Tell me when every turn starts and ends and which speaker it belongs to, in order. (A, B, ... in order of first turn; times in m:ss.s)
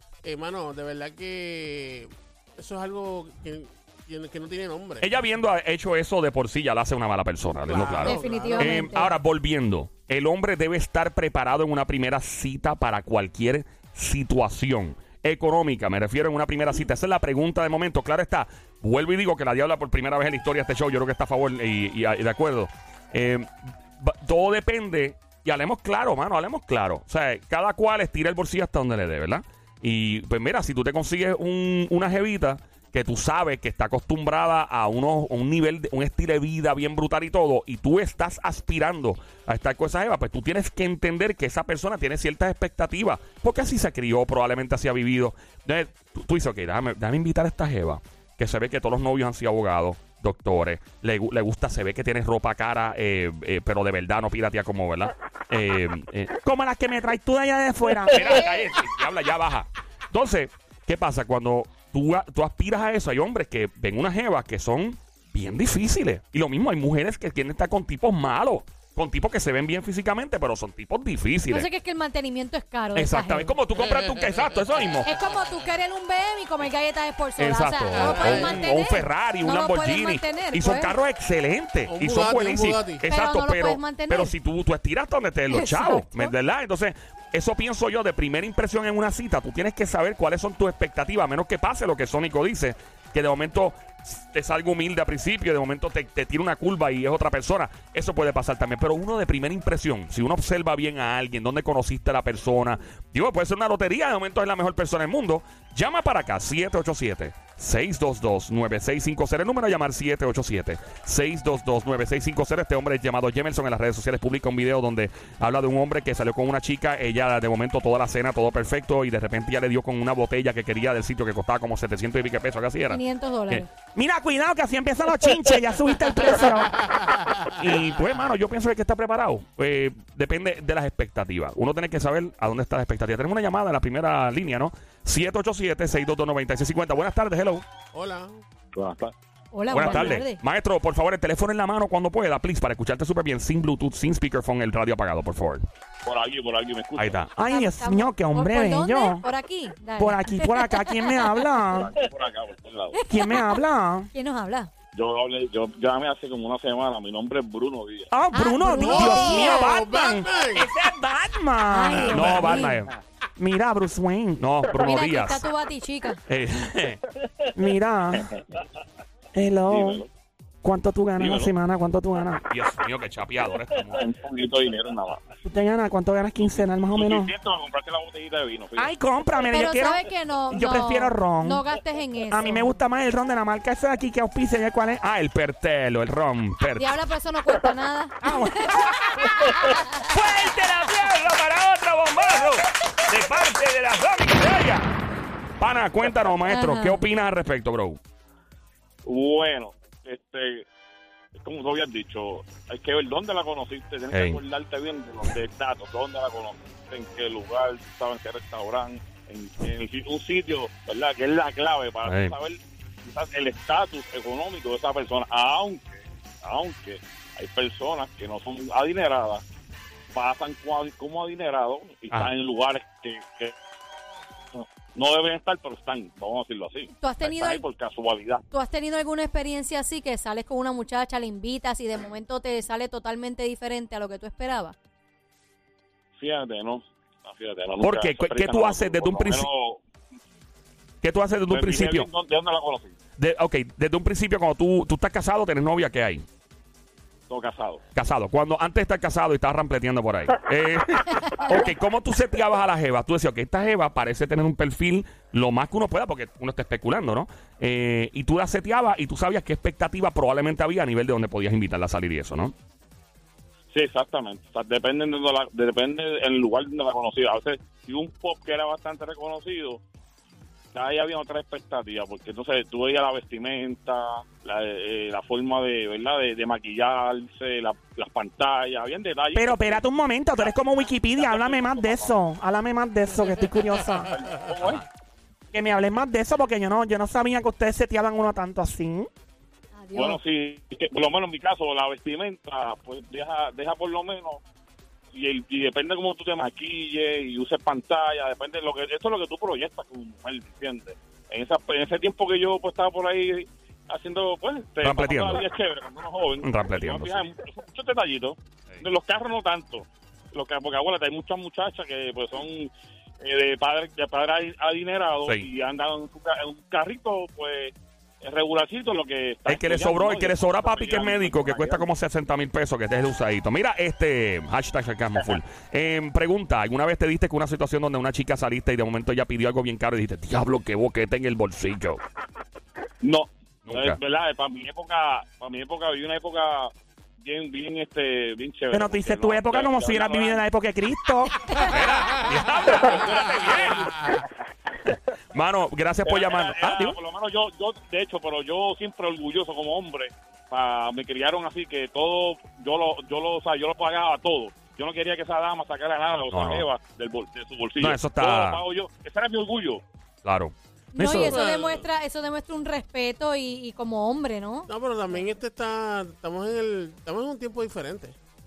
0:00.2-0:05.1 A
0:05.0-0:56.4 B
0:07.7-0:08.8 A
0:08.0-0:09.1 C
0:56.4-0:58.4 D
0:58.1-1:11.7 B
1:11.5-1:13.6 C
1:13.0-1:15.1 B
1:15.0-1:20.9 C
1:17.4-2:03.6 B
1:18.0-1:18.7 A
1:21.9-1:23.0 A
1:23.1-1:24.3 C
1:25.5-1:26.3 C
2:02.9-2:03.7 C
2:03.9-2:06.9 D
2:07.6-2:17.7 B
2:17.9-2:18.4 A
2:18.7-2:19.1 E
2:19.5-2:20.4 C
2:19.7-2:25.6 B
2:26.0-2:27.2 E
2:27.0-2:27.3 B
2:27.4-2:29.2 D
2:27.4-2:31.6 C
2:30.0-2:31.9 D
2:31.7-2:33.0 E
2:32.9-2:34.7 C
2:33.1-2:34.1 D
2:34.9-2:38.1 E
2:38.1-2:42.6 D
2:38.3-2:39.8 C
2:38.7-2:40.8 A
2:41.7-2:42.8 C
2:42.1-2:42.9 B
2:43.4-2:44.4 D
2:44.4-2:45.4 B
2:44.7-2:46.2 C
2:46.3-2:47.0 B
2:47.6-2:48.3 D
2:49.3-2:50.0 D
2:49.7-2:50.1 E
2:50.6-2:52.5 D
2:51.2-2:51.5 E
2:52.5-2:54.1 B
2:53.9-2:55.2 E
2:55.4-2:57.3 D
2:57.0-2:58.9 E
2:58.8-3:01.6 D
2:59.5-3:02.8 C
3:02.3-3:05.0 D
3:05.0-3:06.9 B
3:06.8-3:10.0 C
3:08.2-3:09.1 D
3:09.2-3:14.9 B
3:15.6-3:18.0 B
3:16.5-3:17.0 C
3:19.0-3:20.7 E
3:21.4-3:39.4 E
3:24.1-3:24.4 B
3:32.0-3:32.3 B
3:40.1-3:43.5 E
3:44.5-3:48.4 E
3:47.0-3:47.6 C
3:48.5-3:54.8 C
3:56.2-3:59.8 E
3:57.8-3:59.5 B
4:01.0-4:02.1 B
4:01.5-4:03.0 E
4:03.2-4:06.2 B
4:07.3-4:07.8 E
4:08.0-4:22.6 B
4:23.7-4:29.8 E
4:30.7-4:39.8 E
4:39.4-4:44.1 D
4:41.2-4:42.1 E
4:43.9-4:44.8 E
4:45.5-4:49.1 D
4:49.8-4:50.2 C
4:49.9-4:54.4 E
4:55.1-5:21.8 E
5:04.8-5:05.4 B
5:06.4-5:07.2 B
5:19.5-5:32.0 B
5:33.0-5:40.4 E
5:33.7-5:34.0 B
5:38.7-5:41.5 D
5:41.6-5:43.9 B
5:42.7-5:43.9 E
5:45.3-5:47.0 B
5:46.1-5:59.8 E
5:56.3-5:56.7 B
5:57.8-5:58.6 B
6:00.2-6:01.4 B
6:00.9-6:04.7 C
6:01.3-6:01.8 A
6:04.7-6:08.2 A